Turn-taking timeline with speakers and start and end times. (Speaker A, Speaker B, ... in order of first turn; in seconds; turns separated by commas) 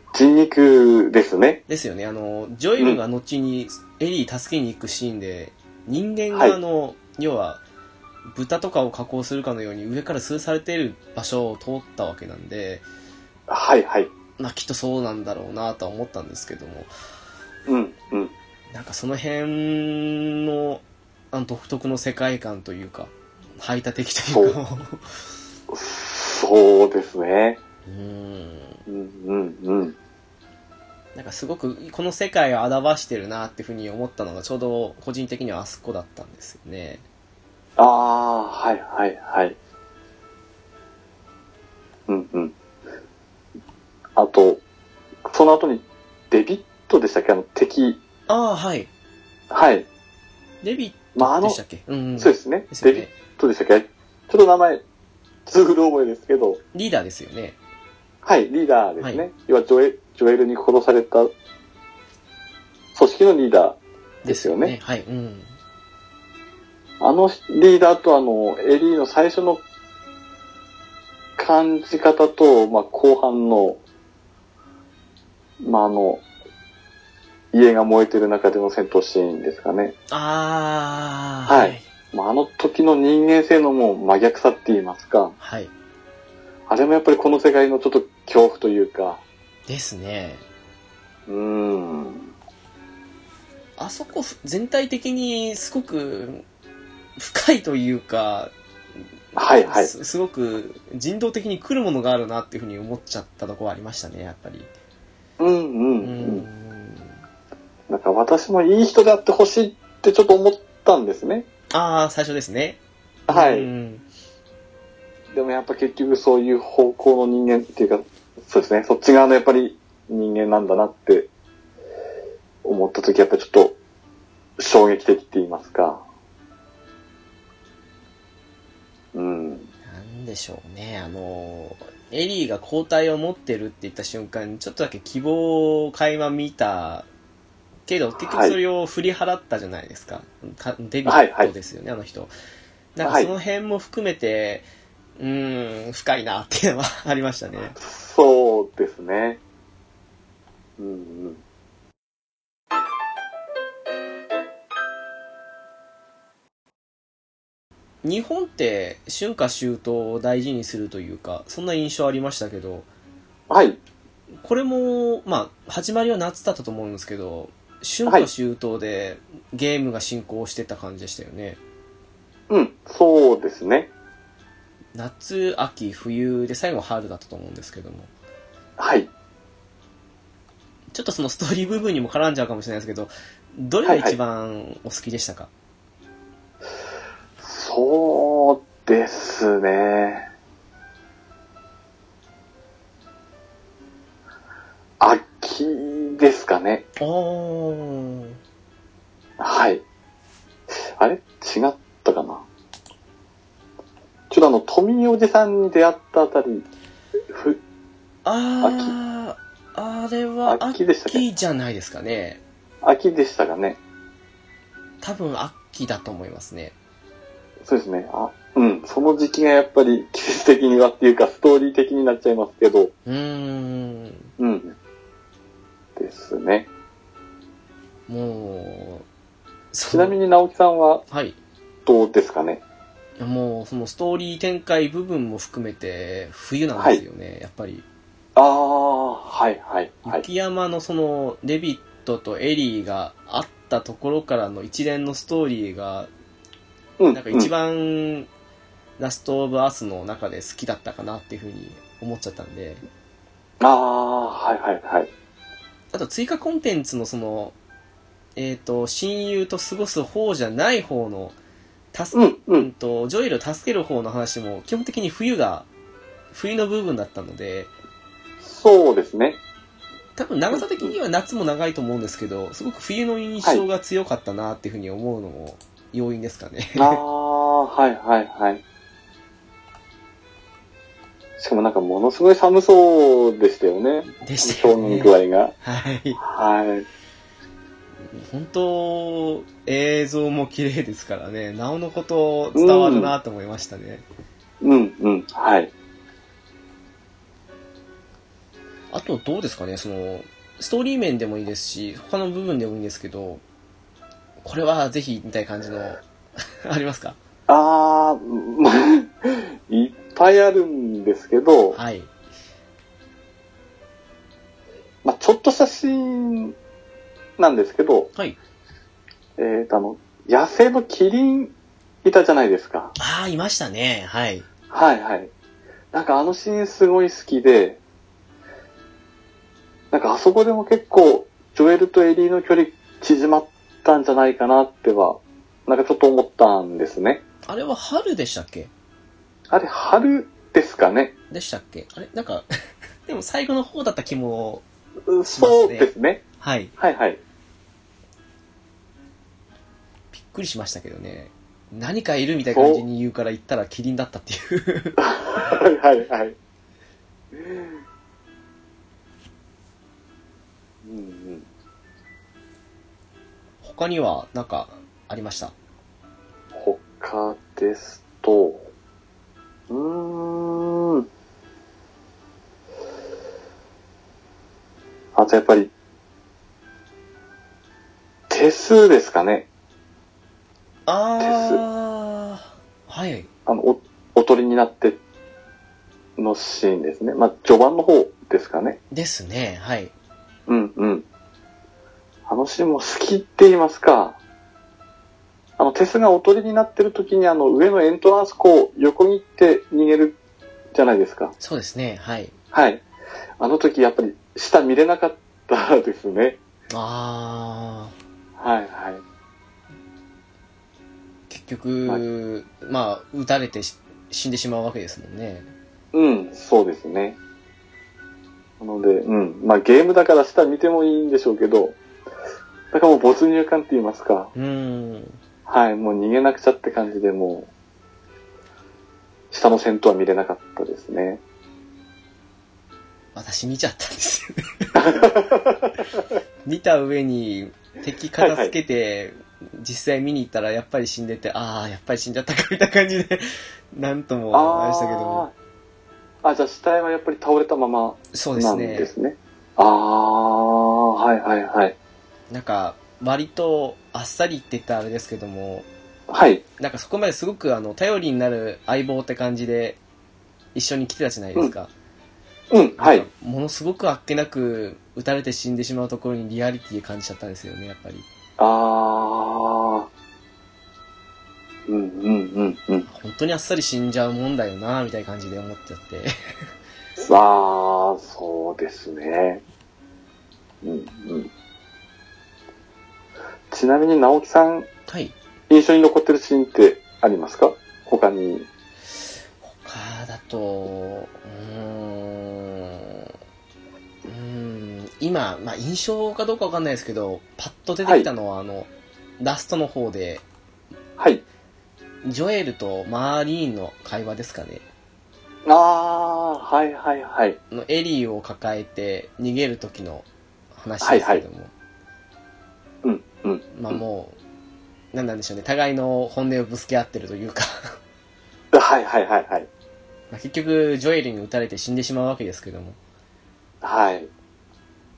Speaker A: 0.1-1.6, Speaker B: 1.7-7.6, Speaker B: 8.3-12.8, Speaker A: 13.5-14.1, Speaker B: 14.4-16.9, Speaker A: 17.7-18.3, Speaker B: 18.7-25.0, Speaker A: 24.2-24.6, Speaker A: 25.7-27.6, Speaker B: 27.9-28.8, Speaker A: 28.9-29.9, Speaker B: 31.1-37.0, Speaker A: 37.8-39.5, Speaker A: 42.1-42.5, Speaker A: 44.1-44.6, Speaker A: 45.3-48.0, Speaker B: 48.3-48.9, Speaker A: 49.5-49.9, Speaker B: 50.6-53.1, Speaker A: 51.1-51.6, Speaker A: 52.2-54.8, Speaker A: 55.5-56.6, Speaker B: 56.7-57.6, Speaker A: 58.2-61.3, Speaker B: 59.0-59.2, Speaker A: 62.9-64.7, Speaker B: 64.2-65.5, Speaker A: 67.0-69.6, Speaker A: 71.4-73.8, Speaker A: 75.6-76.2, Speaker A: 77.5-79.9, Speaker B: 80.1-81.9, Speaker A: 81.5-85.3, Speaker B: 85.4-85.7, Speaker A: 86.7-89.2, Speaker B: 89.7-90.4, Speaker A: 91.3-92.3, Speaker B: 93.8-96.4, Speaker B: 97.2-98.5, Speaker A: 99.3-99.9, Speaker B: 99.6-104.7, Speaker A: 105.4-106.5, Speaker B: 106.0-107.1, Speaker A: 107.9-111.5, Speaker B: 111.7-114.0, Speaker A: 113.3-113.7, Speaker A: 115.3-121.3, Speaker A: 122.6-123.8, Speaker A: 124.6-126.0, Speaker A: 129.1-129.7, Speaker B: 129.8-137.1, Speaker B: 137.9-142.3, Speaker A: 138.2-138.6, Speaker A: 141.1-141.5, Speaker B: 142.9-144.7, Speaker A: 143.0-143.3, Speaker B: 145.2-147.8, Speaker A: 147.7-149.4, Speaker A: 150.8-151.4, Speaker B: 158.0-162.9, Speaker A: 163.5-163.8, Speaker B: 164.4-171.6, Speaker A: 172.5-173.9, Speaker B: 174.9-178.1, Speaker A: 178.8-179.1, Speaker B: 180.9-185.5, Speaker A: 183.8-184.2, Speaker A: 187.4-190.3, Speaker A: 195.0-196.8, Speaker B: 197.0-198.4, Speaker A: 199.4-199.8, Speaker A: 201.0-202.4, Speaker A: 204.3-206.7, Speaker A: 207.3-207.6, Speaker B: 208.2-212.4, Speaker A: 208.6-208.9, Speaker A: 210.4-211.2, Speaker A: 212.8-213.8, Speaker B: 215.0-216.7, Speaker A: 217.6-222.9, Speaker B: 223.1-224.3, Speaker A: 224.4-224.8, Speaker A: 225.9-226.7, Speaker B: 228.1-229.0, Speaker B: 229.7-230.2, Speaker A: 229.9-231.0, Speaker B: 231.1-231.4, Speaker A: 231.8-232.6, Speaker B: 233.2-237.8, Speaker A: 236.8-237.0, Speaker A: 238.3-240.2, Speaker B: 240.1-246.1, Speaker A: 247.0-247.5, Speaker B: 247.1-248.3, Speaker B: 249.0-252.8, Speaker A: 253.6-255.1, Speaker B: 255.9-257.5, Speaker B: 258.4-261.4, Speaker B: 261.9-265.7, Speaker A: 262.1-262.7, Speaker B: 266.3-267.7, Speaker A: 268.4-269.4, Speaker B: 270.1-277.0, Speaker A: 270.5-270.9, Speaker A: 276.8-278.6, Speaker A: 281.4-285.5, Speaker B: 284.2-286.2, Speaker A: 286.2-286.9, Speaker B: 288.1-294.0, Speaker A: 292.5-293.1, Speaker A: 294.6-295.7, Speaker B: 298.9-303.4, Speaker B: 304.4-306.0, Speaker B: 306.6-307.2, Speaker A: 307.5-311.8, Speaker B: 311.7-312.1, Speaker A: 315.0-316.6, Speaker A: 317.4-318.1, Speaker A: 319.4-321.5, Speaker A: 322.0-322.9, Speaker B: 323.0-324.5, Speaker A: 324.7-325.3, Speaker A: 325.9-327.8, Speaker A: 329.9-337.2, Speaker B: 337.4-338.7, Speaker A: 339.5-341.1, Speaker B: 341.3-342.4, Speaker B: 343.1-344.6, Speaker A: 345.1-346.2, Speaker B: 345.2-346.7, Speaker A: 346.8-347.2, Speaker B: 350.1-355.0, Speaker A: 352.5-352.8, Speaker A: 355.0-356.4, Speaker A: 357.3-357.8, Speaker A: 360.8-361.4, Speaker B: 363.6-365.5, Speaker A: 366.5-368.7, Speaker A: 369.7-371.0, Speaker A: 375.1-375.7, Speaker A: 378.3-379.5, Speaker B: 380.9-383.3, Speaker A: 381.2-381.6, Speaker A: 383.4-385.0, Speaker A: 386.2-388.8, Speaker B: 388.9-389.9, Speaker A: 390.5-391.1, Speaker A: 392.3-394.2, Speaker A: 395.6-400.2, Speaker A: 400.7-401.3, Speaker B: 401.4-402.3, Speaker A: 402.5-402.8, Speaker A: 403.4-406.4, Speaker B: 406.7-407.9, Speaker A: 408.4-409.0, Speaker B: 411.3-415.5, Speaker A: 415.9-417.2, Speaker A: 418.6-421.8, Speaker A: 422.7-424.3, Speaker B: 424.3-425.2, Speaker A: 425.5-427.5, Speaker A: 429.3-431.2, Speaker B: 433.1-435.1, Speaker A: 434.8-436.0, Speaker B: 436.4-445.3, Speaker A: 438.2-438.5, Speaker A: 444.3-445.3, Speaker A: 446.2-451.8, Speaker B: 448.1-448.9, Speaker B: 452.3-455.7, Speaker A: 456.1-456.4, Speaker B: 456.6-459.8, Speaker B: 460.5-461.7, Speaker A: 462.5-463.1, Speaker B: 462.8-468.1, Speaker A: 468.4-469.9, Speaker A: 471.7-472.9, Speaker B: 472.9-476.1, Speaker A: 477.0-479.4, Speaker A: 480.6-481.3, Speaker A: 483.5-484.7, Speaker B: 484.9-485.1, Speaker A: 485.5-488.5, Speaker B: 489.4-493.1, Speaker B: 494.0-500.2, Speaker A: 501.0-501.2, Speaker B: 502.0-504.6, Speaker A: 505.4-507.4, Speaker B: 507.5-511.5, Speaker A: 510.8-511.2, Speaker A: 512.8-513.8, Speaker B: 513.5-514.2, Speaker B: 514.9-517.7, Speaker A: 518.5-519.5, Speaker B: 520.1-522.8, Speaker A: 523.6-524.1